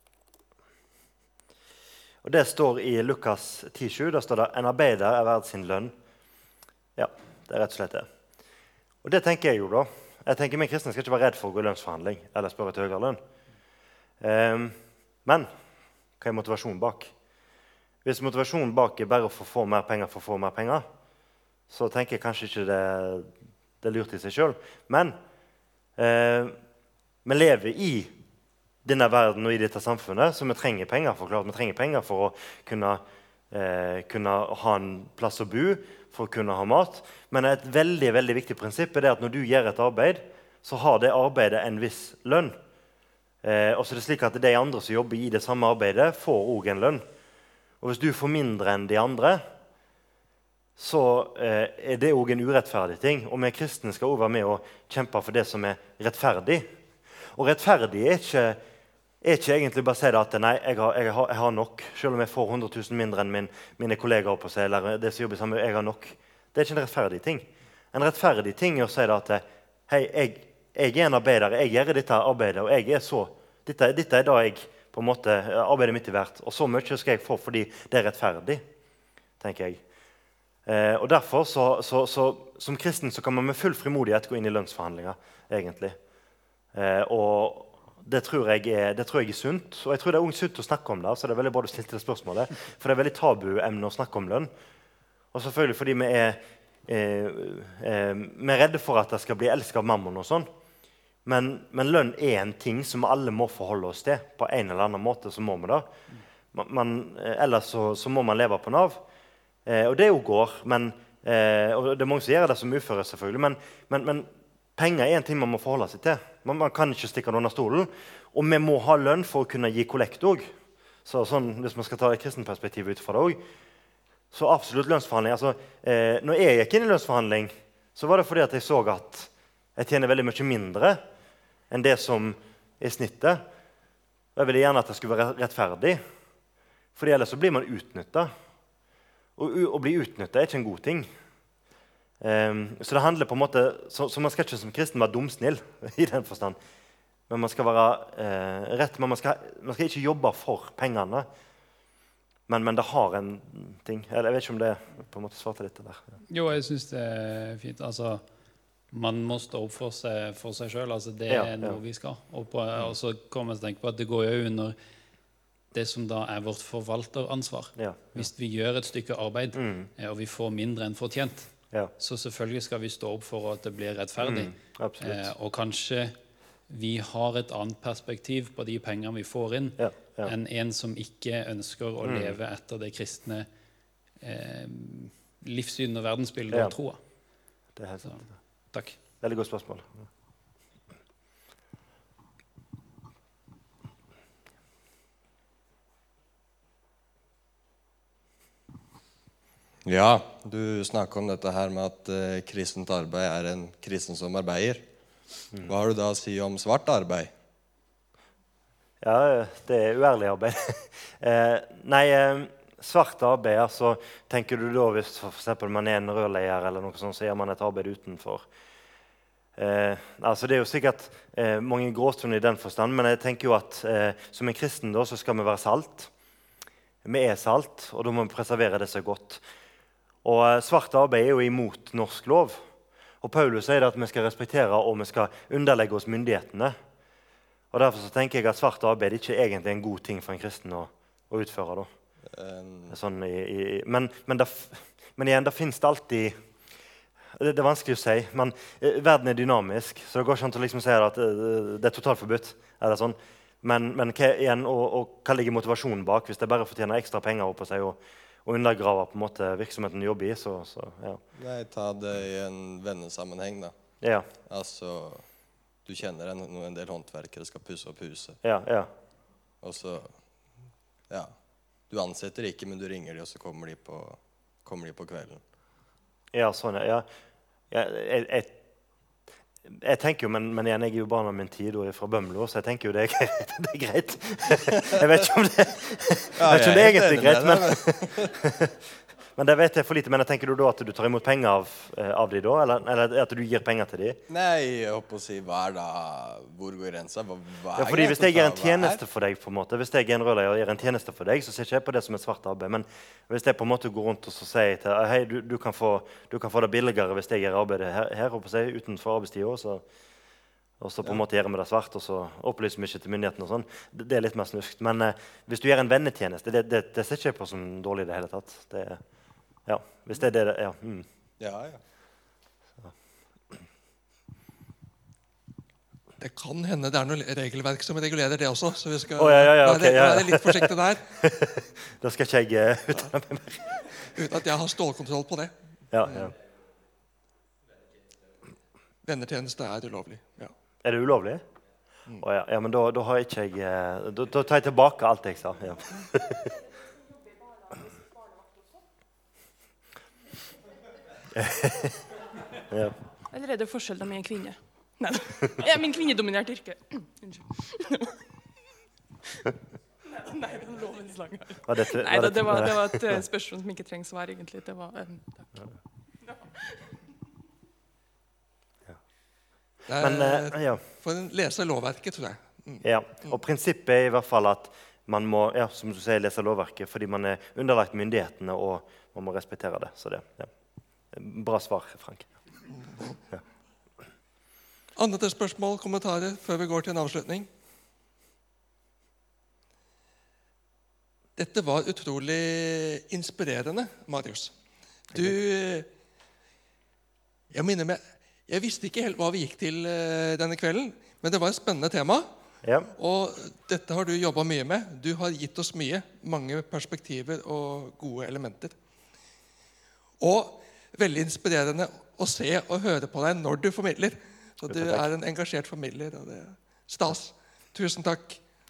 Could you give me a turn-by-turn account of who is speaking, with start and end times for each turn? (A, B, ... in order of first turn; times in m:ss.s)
0:02.2-0:06.0 A
0:07.0-0:08.1 A
0:09.0-0:13.2 A
0:14.2-0:15.5 A
0:16.2-0:17.1 A
0:18.0-0:20.9 A
0:21.7-0:23.3 A
0:23.8-0:25.2 A
0:26.0-0:26.6 A
0:27.2-0:28.1 A
0:28.8-0:42.6 A
0:43.4-0:47.0 A
0:47.8-0:49.4 A
0:50.8-0:56.7 A
0:57.4-0:58.6 A
0:59.2-1:18.6 A
1:19.4-1:19.8 A
1:20.7-1:26.0 A
1:26.7-1:34.5 A
1:35.3-1:40.5 A
1:41.2-1:45.9 A
1:46.5-1:49.0 A
1:49.7-2:00.5 A
2:01.0-2:03.4 A
2:04.3-2:11.0 A
2:11.7-2:13.4 A
2:14.4-2:16.0 A
2:17.0-2:18.3 A
2:19.4-2:21.1 A
2:22.2-2:26.6 A
2:27.3-2:31.3 A
2:32.5-2:36.2 A
2:36.3-2:38.2 B
2:38.9-2:44.8 B
2:41.3-2:41.8 A
2:45.7-2:56.2 B
2:47.8-2:48.3 A
2:49.5-2:49.9 A
2:54.2-2:55.3 A
2:56.7-3:03.5 B
2:59.8-3:00.3 A
3:02.0-3:02.4 A
3:04.2-3:07.0 B
3:07.8-3:08.3 A
3:08.7-3:09.0 B
3:09.2-3:09.9 A
3:19.9-3:24.8 C
3:25.6-3:27.3 C
3:29.0-3:38.5 A
3:39.6-3:46.1 A
3:47.0-3:49.4 A
3:50.2-3:52.6 A
3:53.2-3:56.8 A
3:57.7-4:01.9 A
4:02.3-4:03.0 C
4:02.9-4:06.4 A
4:07.4-4:21.2 A
4:21.4-4:23.8 C
4:24.0-4:24.3 A
4:24.5-4:25.3 C
4:25.8-4:28.4 C
4:28.4-4:28.9 A
4:29.6-4:30.3 C
4:31.1-4:31.4 C
4:31.9-4:35.4 C
4:36.3-4:37.1 A
4:37.7-4:38.6 A
4:39.7-4:48.8 A
4:46.4-4:48.4 C
4:49.4-4:54.2 A
4:54.3-4:59.0 C
4:57.8-5:09.8 A
5:10.8-5:19.0 A
5:19.6-5:21.1 A
5:21.4-5:21.8 C
5:26.2-5:31.0 D
5:29.2-5:33.8 A
5:33.9-5:36.3 D
5:35.9-5:36.4 A
5:39.0-5:40.5 D
5:40.8-5:41.4 A
5:42.2-5:46.5 A
5:47.4-5:48.5 E
5:51.3-5:52.0 A
5:52.7-5:53.0 A
5:53.3-5:58.2 E
6:00.1-6:05.5 E
6:01.7-6:03.2 A
6:06.2-6:06.9 E
6:09.9-6:13.4 D
6:10.0-6:10.8 A
6:12.8-6:20.5 A
6:21.1-6:22.4 A
6:25.0-6:27.5 D
6:31.4-6:34.5 D
6:35.1-6:35.9 D
6:37.5-6:42.3 D
6:42.6-6:42.9 A
6:43.0-6:48.8 D
6:50.2-6:58.4 D
6:54.7-6:55.1 A